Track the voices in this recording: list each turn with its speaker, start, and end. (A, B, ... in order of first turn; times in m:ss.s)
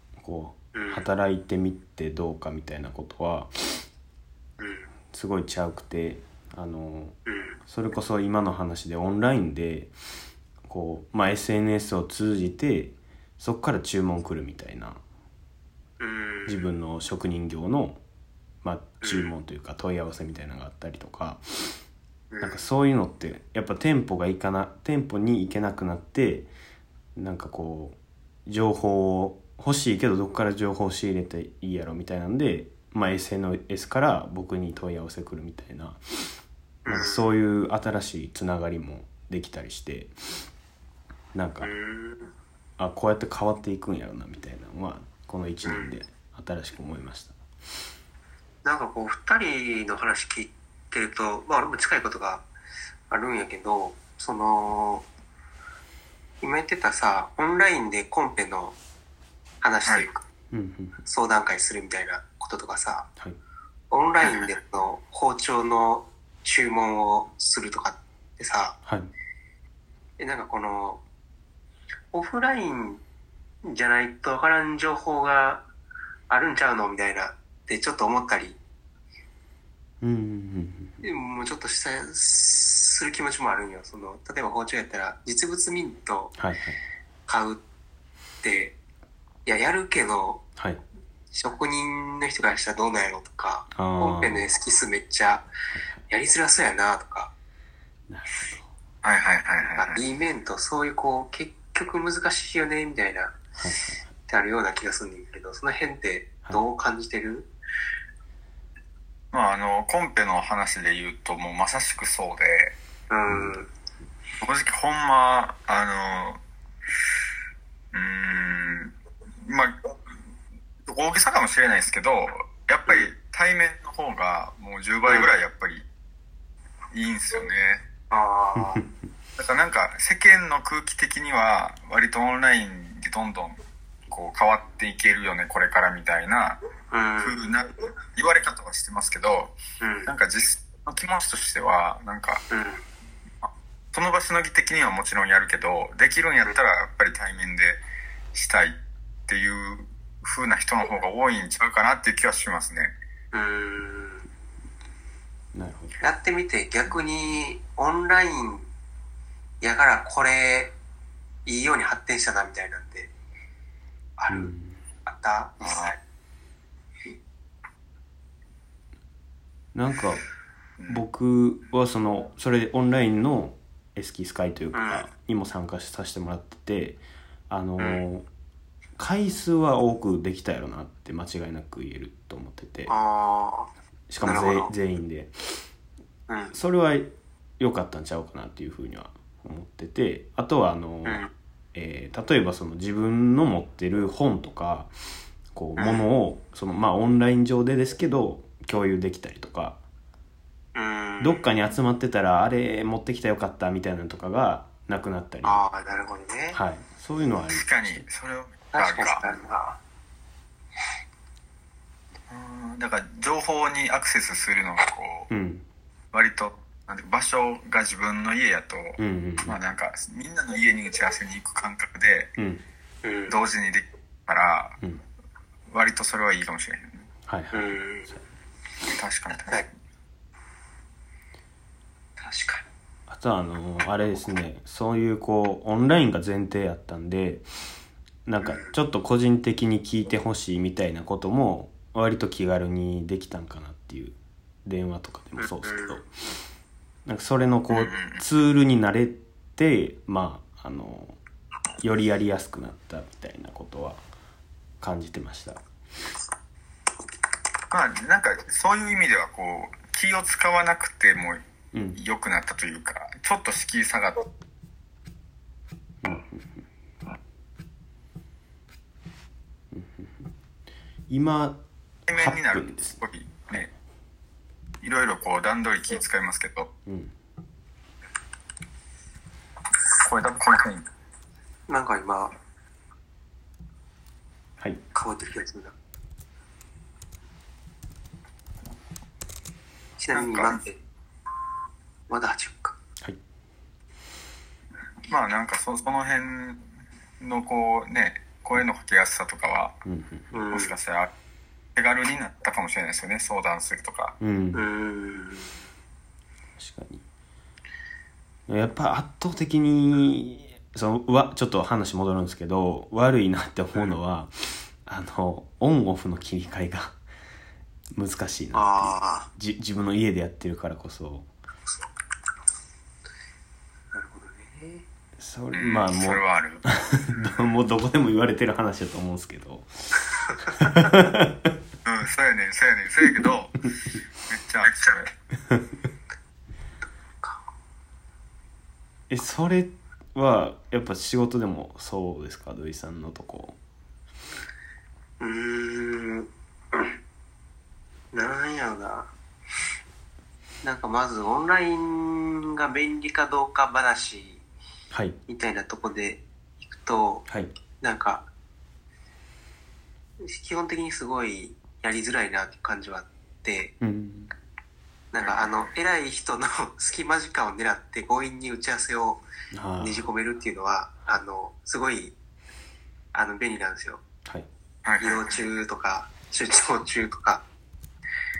0:00.2-0:03.5 A
0:00.8-0:01.1 B
0:04.6-0:04.9 B
0:05.1-0:07.2 A
0:07.3-0:07.6 B
0:07.7-0:09.9 A
0:10.6-0:15.0 A
0:16.0-0:16.7 B
0:16.5-0:18.0 A
0:18.6-0:21.4 A
0:19.0-0:19.3 B
0:22.3-0:22.6 B
0:22.4-0:26.5 A
0:27.2-0:36.0 A
0:36.8-0:37.3 B
0:36.9-0:40.1 A
0:41.3-0:41.7 A
0:41.6-0:42.3 B
0:42.8-0:47.4 A
0:45.6-0:46.0 B
0:48.6-0:52.5 B
0:53.1-0:55.1 B
0:56.4-0:58.8 B
0:59.6-1:00.3 B
1:00.5-1:01.0 A
1:01.1-1:03.1 B
1:03.9-1:08.8 B
1:04.2-1:04.5 C
1:10.2-1:11.0 B
1:12.1-1:13.0 B
1:13.6-1:15.7 B
1:16.3-1:18.6 B
1:20.0-1:21.0 A
1:21.0-1:26.4 B
1:26.4-1:26.8 A
1:27.3-1:27.6 B
1:28.4-1:28.8 B
1:29.5-1:30.4 B
1:31.3-1:35.5 B
1:33.7-1:34.5 A
1:35.7-1:36.0 A
1:36.1-1:37.3 B
1:38.1-1:38.7 A
1:39.0-1:40.0 C
1:39.8-1:43.4 B
1:43.6-1:44.1 A
1:44.3-1:47.5 B
1:49.3-1:52.8 C
1:53.1-1:53.7 B
1:53.3-1:53.6 A
1:54.4-1:56.4 C
1:57.9-1:59.8 C
2:00.9-2:05.9 C
2:05.1-2:05.4 B
2:06.9-2:07.9 C
2:08.1-2:08.8 B
2:09.4-2:16.6 C
2:16.9-2:17.4 B
2:17.2-2:22.4 C
2:19.8-2:20.1 B
2:22.5-2:22.8 B
2:23.4-2:27.8 C
2:28.3-2:32.9 C
2:33.3-2:34.2 B
2:35.5-2:36.0 A
2:36.0-2:38.7 B
2:39.6-2:40.8 B
2:41.5-2:43.1 B
2:44.2-2:44.5 B
2:44.3-2:44.8 A
2:45.1-2:46.0 B
2:45.6-2:46.0 C
2:49.8-2:50.2 A
2:50.9-2:58.3 A
2:54.7-2:55.1 B
2:59.0-3:02.9 A
3:02.9-3:03.7 B
3:04.1-3:05.3 A
3:04.2-3:04.7 B
3:06.3-3:06.6 B
3:06.5-3:07.1 A
3:07.6-3:14.9 A
3:11.0-3:11.3 B
3:15.5-3:19.8 A
3:15.8-3:16.1 B
3:20.8-3:21.4 B
3:21.2-3:25.6 A
3:25.4-3:26.6 B
3:26.5-3:28.1 A
3:27.5-3:29.2 C
3:28.7-3:29.8 B
3:32.3-3:35.3 C
3:35.3-3:35.6 A
3:36.1-3:42.3 C
3:39.0-3:39.6 A
3:42.4-3:42.6 A
3:43.0-3:43.4 B
3:43.3-3:44.8 C
3:45.7-3:47.0 C
3:47.3-3:48.2 A
3:47.5-3:48.1 B
3:48.8-3:49.7 C
3:52.2-3:52.7 B
3:53.1-3:57.4 A
3:58.3-4:06.1 A
3:58.4-3:58.7 B
4:05.4-4:06.0 B
4:07.1-4:11.2 A
4:07.7-4:08.2 C
4:11.8-4:14.0 A
4:14.8-4:15.6 A
4:17.7-4:21.4 C
4:21.7-4:22.0 A
4:22.0-4:24.3 C
4:26.0-4:26.6 A
4:29.7-4:30.3 A
4:31.1-4:31.6 A
4:32.1-4:33.7 C
4:32.1-4:33.7 A
4:34.8-4:36.7 C
4:36.9-4:37.1 A
4:40.0-4:40.9 C
4:41.7-4:42.4 B
4:44.9-4:45.7 B
4:50.0-4:50.8 B
4:50.1-4:50.6 C
4:52.1-4:52.8 B
4:55.1-4:56.7 C
4:57.2-4:59.8 C
4:59.8-5:00.4 A
5:00.3-5:00.8 B
5:00.5-5:01.1 C
5:01.8-5:04.2 C
5:04.2-5:04.7 A
5:04.5-5:05.5 B
5:06.6-5:07.0 A
5:08.5-5:17.0 A
5:17.9-5:21.3 A
5:18.5-5:19.3 B
5:23.9-5:24.8 B
5:25.2-5:31.5 A
5:25.5-5:26.6 C
5:31.8-5:33.6 C
5:34.3-5:35.1 C
5:39.1-5:43.6 A
5:45.2-5:46.9 B
5:48.1-5:49.1 B
5:50.6-5:54.4 B
5:54.9-5:55.2 A
5:55.3-5:57.2 B
5:57.3-5:57.5 A
5:57.8-5:58.3 B
6:00.3-6:03.8 B
6:03.8-6:04.3 A
6:05.1-6:09.2 B
6:09.5-6:10.1 A
6:09.8-6:12.2 B
6:13.1-6:14.0 B
6:14.8-6:15.3 C
6:15.0-6:17.4 B